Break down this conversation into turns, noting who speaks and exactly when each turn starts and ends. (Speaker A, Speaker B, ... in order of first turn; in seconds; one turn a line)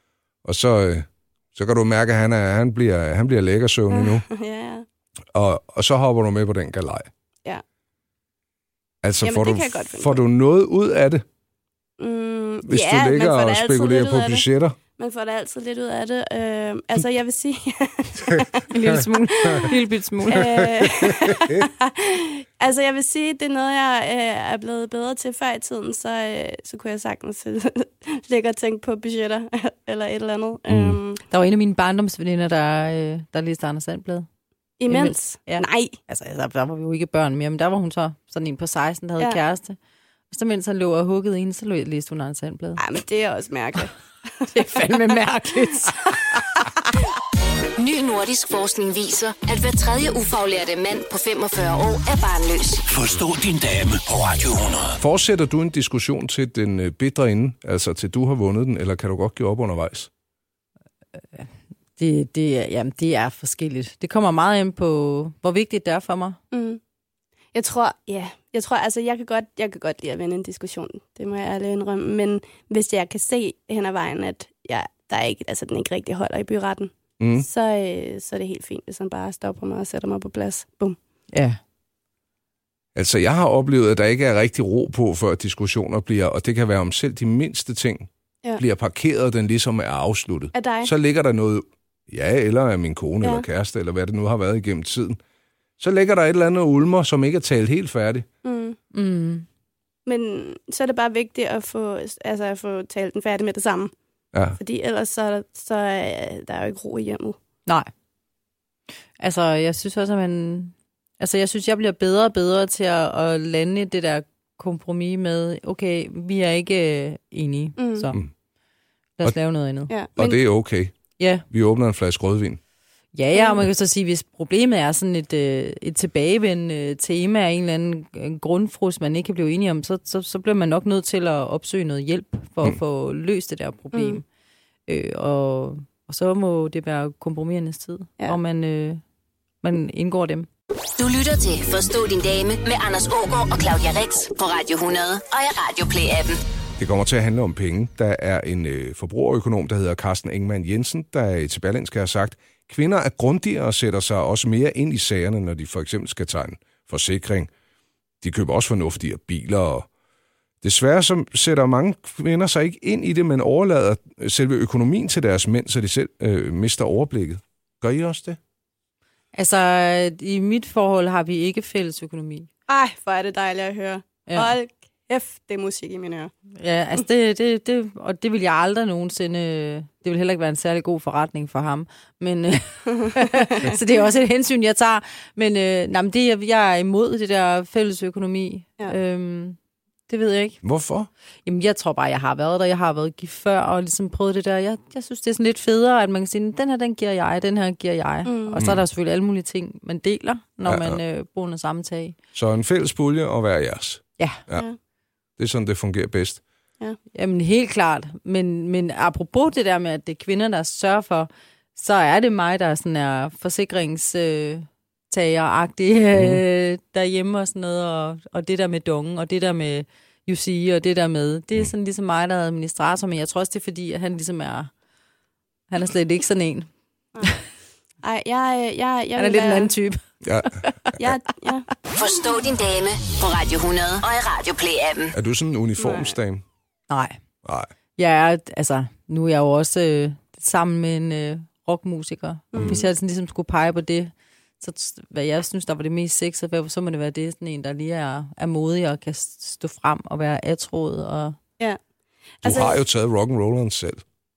Speaker A: 0.4-4.2
Speaker B: 3.9-4.8
Speaker A: 5.3-7.1
Speaker A: 9.0-11.2
Speaker B: 9.2-10.2
Speaker B: 12.0-14.4
Speaker A: 12.7-14.8
Speaker B: 15.0-18.7
Speaker A: 18.3-19.6
Speaker C: 18.7-20.6
Speaker B: 19.4-19.7
Speaker B: 20.3-31.2
Speaker A: 20.3-21.7
Speaker A: 30.7-31.0
Speaker C: 31.3-34.3
Speaker B: 34.8-36.0
Speaker C: 34.9-39.8
Speaker C: 40.3-42.8
Speaker B: 42.8-44.9
Speaker C: 44.5-46.6
Speaker B: 45.9-46.2
Speaker D: 47.8-52.8
Speaker E: 52.9-55.0
Speaker A: 55.0-60.1
Speaker C: 61.2-66.4
Speaker B: 66.5-66.8
Speaker B: 67.5-81.0
Speaker A: 77.2-77.5
Speaker C: 81.3-81.6
Speaker A: 82.9-95.2
Speaker B: 90.5-90.9
Speaker B: 93.2-93.5
Speaker A: 95.8-98.2
Speaker B: 98.4-98.8
Speaker C: 98.9-99.5
Speaker B: 100.0-103.9
Speaker A: 104.3-104.6
Speaker B: 104.6-107.4
Speaker C: 109.2-118.2
Speaker B: 117.8-118.1
Speaker C: 119.2-119.9
Speaker B: 119.9-120.4
Speaker A: 120.2-120.9
Speaker C: 121.2-121.4
Speaker A: 121.5-122.6
Speaker C: 123.1-134.2
Speaker B: 123.3-123.7
Speaker B: 133.9-134.2
Speaker C: 134.9-139.0
Speaker C: 139.6-140.5
Speaker D: 141.0-146.4
Speaker A: 146.8-157.5
Speaker A: 158.2-159.9
Speaker A: 160.6-168.4
Speaker C: 169.3-172.5
Speaker B: 172.7-176.3
Speaker C: 174.3-174.5
Speaker C: 176.5-189.6
Speaker B: 183.0-183.4
Speaker C: 190.1-190.6
Speaker A: 190.6-191.1
Speaker C: 191.4-202.2
Speaker B: 198.2-198.7
Speaker A: 198.5-198.8
Speaker A: 200.7-201.0
Speaker A: 202.3-204.7
Speaker A: 205.4-206.4
Speaker C: 207.1-224.7
Speaker A: 216.1-216.4
Speaker C: 225.7-226.7
Speaker B: 228.0-229.7
Speaker C: 229.2-231.0
Speaker A: 230.2-230.7
Speaker B: 231.0-231.7
Speaker D: 231.9-235.1
Speaker A: 235.1-236.4
Speaker B: 235.8-236.2
Speaker C: 236.9-237.2
Speaker A: 237.4-237.7
Speaker C: 238.0-251.4
Speaker B: 242.5-242.9
Speaker B: 252.4-252.8
Speaker A: 252.4-254.0